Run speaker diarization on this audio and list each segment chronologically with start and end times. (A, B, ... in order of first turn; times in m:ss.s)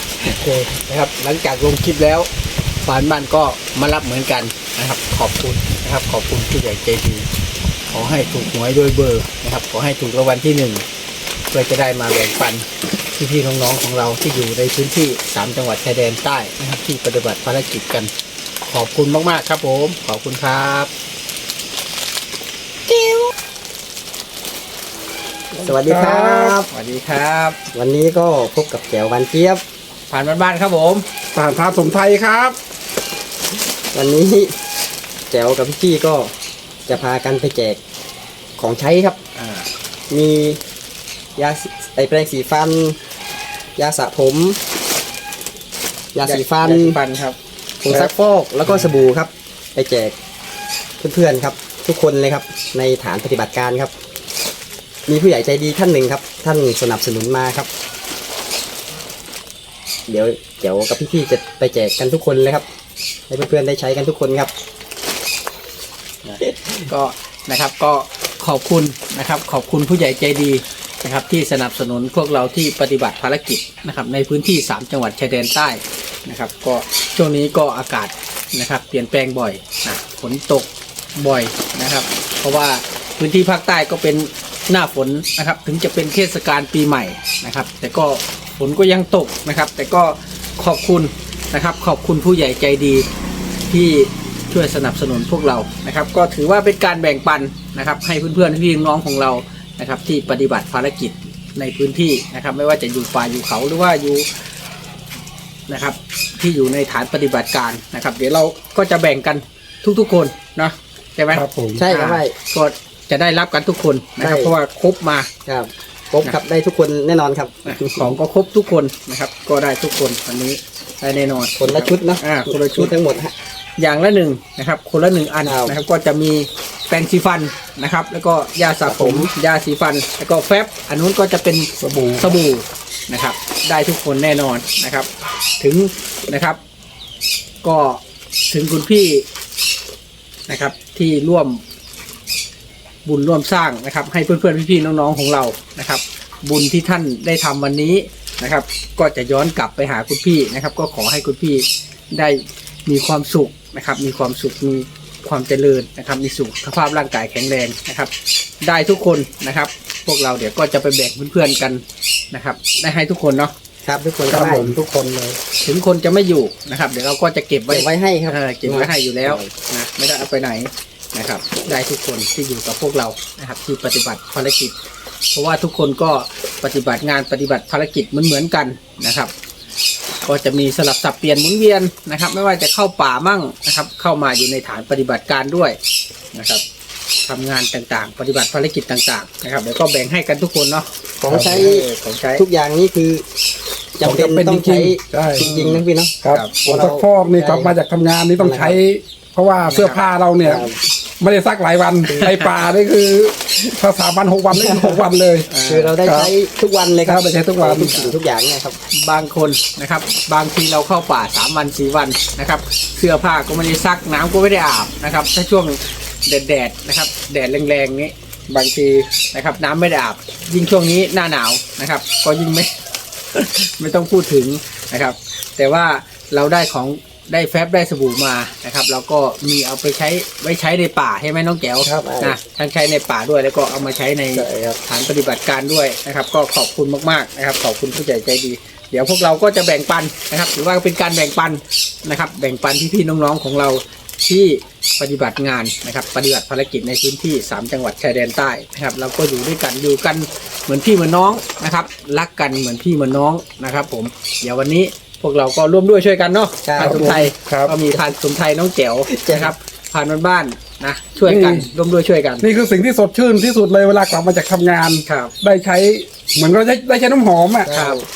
0:00.3-0:02.3 A
0:02.8-0:07.3 A
0:07.9-0:10.8 A
0:11.5-0:18.1 A
0:18.7-0:20.9 A
0:25.5-0:26.6 B
0:25.6-0:26.7 C
0:26.7-0:27.6 A
0:27.7-0:29.6 C
0:30.1-0:31.0 A
0:31.3-0:32.6 B
0:33.9-0:34.5 C
0:35.3-0:36.3 C
0:36.9-0:37.8 C
0:38.6-0:39.2 C
0:39.4-0:39.7 A
0:40.1-0:40.6 C
0:41.4-0:43.0 C
0:43.8-0:44.6 C
0:46.1-0:47.0 C
0:46.2-0:47.4 A
0:47.8-0:50.1 C
0:51.0-0:53.9 C
0:55.1-0:57.7 C
1:00.1-1:02.7 C
1:03.3-1:04.5 C
1:06.4-1:06.7 C
1:06.9-1:33.0 A
1:33.7-1:44.3 A
1:45.7-1:55.3 A
1:51.3-1:51.8 B
1:51.8-1:52.3 C
1:54.2-1:54.5 C
1:55.4-1:58.0 C
1:57.7-2:02.9 A
2:01.6-2:03.3 C
2:03.8-2:15.1 A
2:05.4-2:05.8 C
2:08.8-2:09.3 C
2:11.8-2:12.4 B
2:15.6-2:16.6 A
2:17.6-2:18.0 A
2:18.5-2:19.2 A
2:20.5-2:21.6 A
2:23.0-2:38.1 A
2:38.6-2:43.5 A
2:43.8-2:44.8 C
2:44.3-2:45.4 B
2:45.6-2:54.8 A
2:47.7-2:49.5 C
2:55.3-2:59.3 A
3:00.2-3:05.8 A
3:06.3-3:06.6 A
3:07.2-3:12.4 A
3:11.2-3:13.2 C
3:11.3-3:11.6 B
3:14.0-3:17.7 C
3:14.0-3:20.7 B
3:16.3-3:16.5 A
3:18.4-3:18.8 C
3:19.7-3:20.0 A
3:20.4-3:20.8 C
3:21.2-3:25.5 B
3:22.1-3:22.4 A
3:24.5-3:25.0 C
3:25.5-3:25.9 A
3:25.7-3:28.8 C
3:26.0-3:26.3 B
3:27.0-3:28.1 B
3:29.0-3:42.7 A
3:43.3-4:22.5 A
3:51.8-3:52.4 C
3:54.3-3:54.8 C
4:16.6-4:17.2 C
4:16.8-4:17.7 B
4:19.1-4:19.5 C
4:21.3-4:21.7 B
4:22.4-4:27.7 B
4:25.1-4:25.3 A
4:27.7-4:28.0 C
4:27.7-4:28.0 A